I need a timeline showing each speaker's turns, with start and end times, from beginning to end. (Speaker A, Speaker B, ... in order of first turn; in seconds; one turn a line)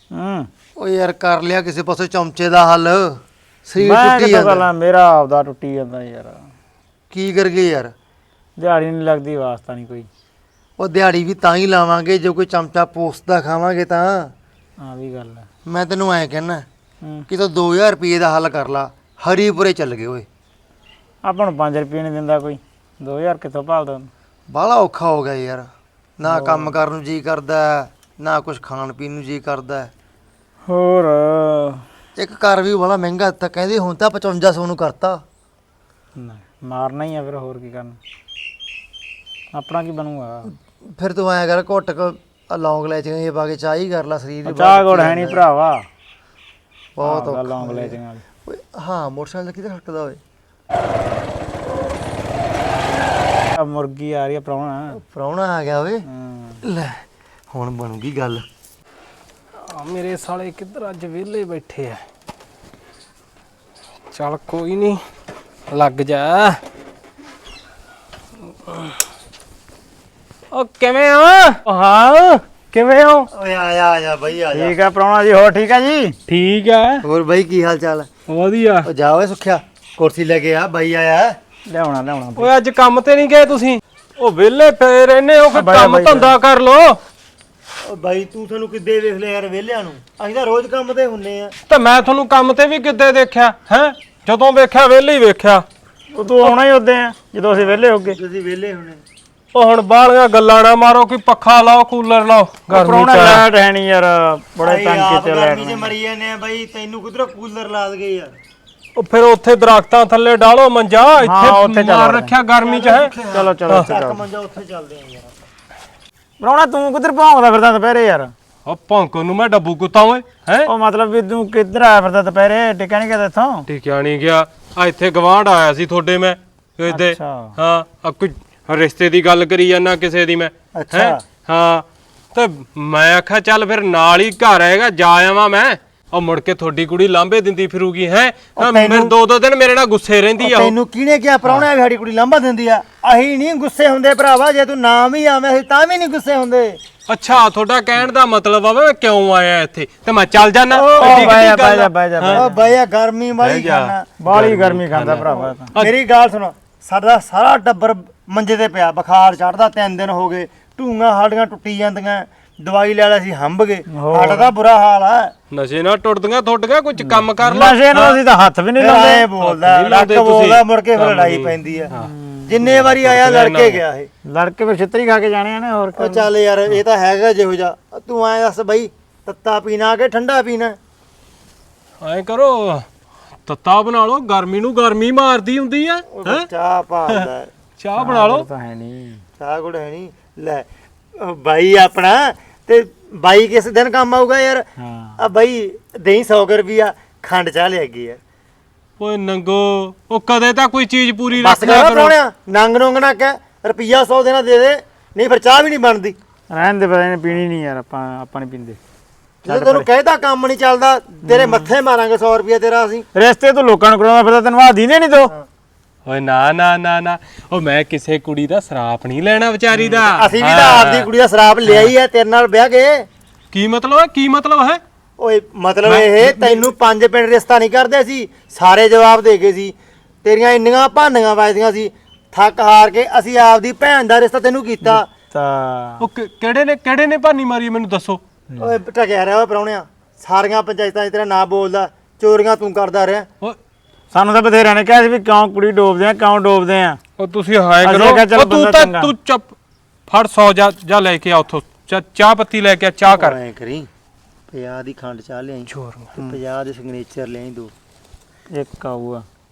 Speaker A: 0.1-0.5
Speaker B: 0.8-4.7
Speaker A: 3.8-6.4
Speaker B: 7.1-7.9
Speaker A: 8.6-10.1
Speaker B: 10.8-14.3
Speaker A: 14.8-15.4
Speaker B: 15.7-16.6
Speaker B: 17.3-20.2
Speaker A: 21.2-24.1
Speaker B: 24.5-25.7
Speaker B: 26.2-29.9
Speaker A: 26.3-26.7
Speaker A: 30.7-31.8
Speaker B: 32.1-35.2
Speaker A: 36.2-38.0
Speaker A: 39.5-40.5
Speaker B: 40.5-45.4
Speaker A: 44.4-45.8
Speaker B: 47.0-50.2
Speaker A: 47.0-48.2
Speaker A: 53.6-55.0
Speaker B: 55.0-56.0
Speaker A: 56.0-56.6
Speaker B: 56.6-58.4
Speaker C: 59.6-62.0
Speaker C: 64.1-65.0
Speaker C: 65.7-66.6
Speaker C: 68.7-68.9
Speaker C: 70.5-73.3
Speaker B: 73.3-74.8
Speaker A: 74.5-76.2
Speaker C: 76.3-77.0
Speaker B: 77.0-78.1
Speaker C: 78.3-78.9
Speaker B: 78.8-81.4
Speaker A: 81.7-82.5
Speaker C: 82.4-87.0
Speaker A: 85.5-86.3
Speaker B: 87.8-91.5
Speaker C: 91.7-95.6
Speaker A: 96.1-98.2
Speaker B: 97.5-99.0
Speaker C: 99.5-103.5
Speaker A: 102.7-105.9
Speaker B: 104.6-108.3
Speaker C: 109.0-113.1
Speaker A: 111.2-112.3
Speaker B: 112.6-115.3
Speaker A: 113.3-114.2
Speaker A: 116.4-118.3
Speaker C: 118.7-120.7
Speaker A: 120.7-123.7
Speaker C: 123.7-140.7
Speaker A: 126.9-127.5
Speaker B: 130.7-131.2
Speaker B: 138.6-139.1
Speaker B: 140.4-146.8
Speaker C: 147.1-152.4
Speaker A: 150.7-152.6
Speaker B: 150.9-151.4
Speaker B: 152.3-154.1
Speaker C: 153.4-155.9
Speaker A: 154.2-155.7
Speaker B: 155.3-165.3
Speaker A: 163.9-164.5
Speaker C: 165.5-168.2
Speaker A: 167.0-169.3
Speaker B: 168.8-171.9
Speaker C: 169.4-172.1
Speaker A: 171.9-172.6
Speaker B: 172.5-174.1
Speaker C: 172.7-173.8
Speaker A: 174.3-176.3
Speaker B: 175.9-180.8
Speaker C: 182.0-182.8
Speaker C: 183.4-186.4
Speaker B: 186.1-187.5
Speaker C: 187.8-188.4
Speaker A: 188.0-189.2
Speaker B: 189.4-194.7
Speaker A: 194.8-195.2
Speaker B: 195.2-198.2
Speaker C: 199.0-202.2
Speaker B: 201.3-206.2
Speaker A: 206.5-208.8
Speaker B: 209.4-213.0
Speaker A: 209.5-209.9
Speaker A: 211.2-211.7
Speaker A: 213.1-215.3
Speaker C: 216.1-221.1
Speaker B: 220.0-223.1
Speaker C: 223.5-224.8
Speaker B: 225.2-235.1
Speaker C: 225.8-226.7
Speaker A: 234.8-236.0
Speaker C: 236.0-238.2
Speaker B: 238.6-243.3
Speaker A: 244.1-247.0
Speaker C: 247.2-249.5
Speaker A: 247.8-249.1
Speaker C: 250.1-253.3
Speaker B: 253.1-253.9
Speaker B: 254.5-257.7
Speaker C: 255.7-256.1
Speaker A: 258.5-259.2